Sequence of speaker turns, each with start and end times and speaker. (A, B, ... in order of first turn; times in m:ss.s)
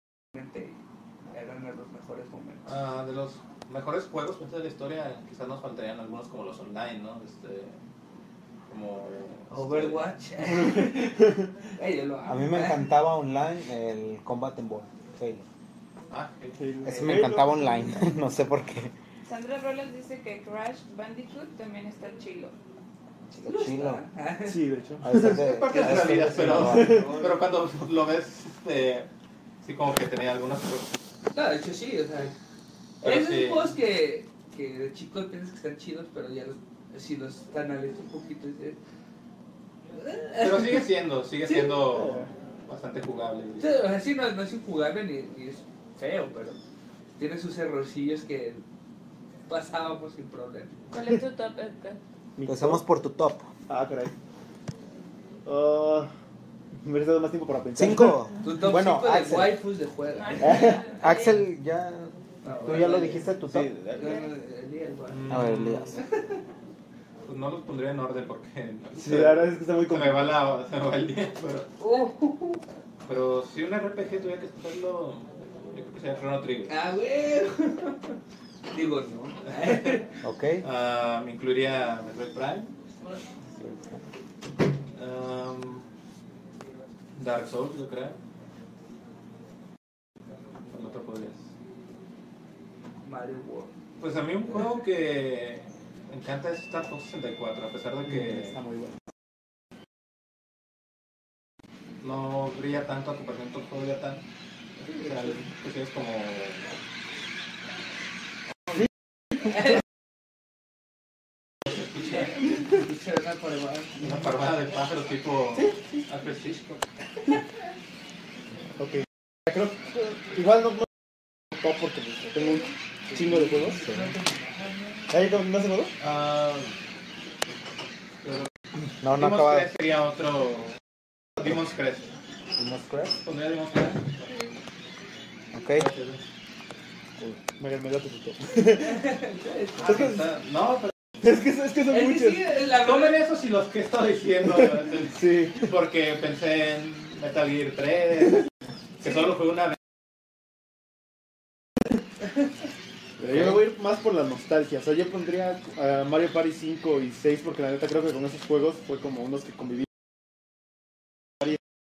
0:00.3-0:02.7 A
0:02.7-0:07.8 B
0:08.7-0:10.1 B
0:09.5-0:12.8 A
0:10.5-0:11.5 C
0:12.3-0:15.5 D
0:16.1-0:16.6 B
0:16.6-0:17.7 C
0:16.8-0:18.9 D
0:16.9-0:17.2 A
0:19.3-0:22.6 E
0:23.3-0:24.0 D
0:23.4-0:24.6 A
0:24.4-0:25.6 C
0:25.0-0:27.2 D
0:25.4-0:29.1 B
0:25.7-0:27.4 A
0:26.6-0:27.1 C
0:29.6-0:31.0 B
0:31.3-0:32.3 A
0:33.0-0:38.8 A
0:33.0-0:33.7 B
0:39.9-0:40.9 A
0:40.4-0:43.7 B
0:41.5-0:41.8 A
0:41.9-0:42.3 C
0:43.6-0:46.6 A
0:47.2-0:48.6 A
0:49.5-0:50.8 A
0:50.9-0:52.0 E
0:52.4-0:52.8 C
0:52.5-0:53.5 D
0:53.7-0:54.1 C
0:55.4-0:56.1 C
0:56.8-0:58.2 C
0:57.8-0:59.6 D
0:58.4-1:00.9 A
1:00.2-1:01.4 E
1:00.5-1:00.8 C
1:00.7-1:02.1 D
1:02.4-1:03.4 A
1:02.6-1:03.7 D
1:03.5-1:04.2 C
1:03.9-1:05.3 A
1:05.1-1:06.0 B
1:05.3-1:06.0 D
1:06.0-1:06.4 A
1:07.2-1:11.7 B
1:09.0-1:10.3 C
1:11.8-1:12.6 A
1:13.1-1:16.7 B
1:16.7-1:18.2 A
1:18.7-1:20.1 A
1:20.2-1:20.6 D
1:20.6-1:22.7 B
1:23.6-1:24.0 D
1:25.0-1:25.8 B
1:27.2-1:28.2 B
1:30.7-1:31.4 B
1:33.0-1:33.7 A
1:34.0-1:38.6 B
1:38.1-1:39.0 C
1:42.0-1:44.3 B
1:44.8-1:46.7 B
1:51.8-1:52.3 B
1:52.1-1:54.2 A
1:54.0-1:56.8 B
1:55.6-1:55.9 C
1:58.8-2:00.9 C
2:01.5-2:03.9 C
2:03.1-2:05.1 A
2:05.1-2:05.9 C
2:06.0-2:06.7 B
2:08.2-2:08.5 B
2:09.0-2:09.7 D
2:09.1-2:10.8 B
2:11.4-2:12.1 B
2:12.6-2:13.2 D
2:13.2-2:14.1 B
2:15.5-2:15.9 D
2:15.7-2:16.2 B
2:17.6-2:19.1 C
2:18.7-2:20.1 A
2:19.8-2:21.0 B
2:21.2-2:22.5 C
2:21.9-2:23.2 A
2:22.7-2:28.5 B
2:25.1-2:25.7 C
2:29.0-2:29.8 B
2:33.2-2:39.9 C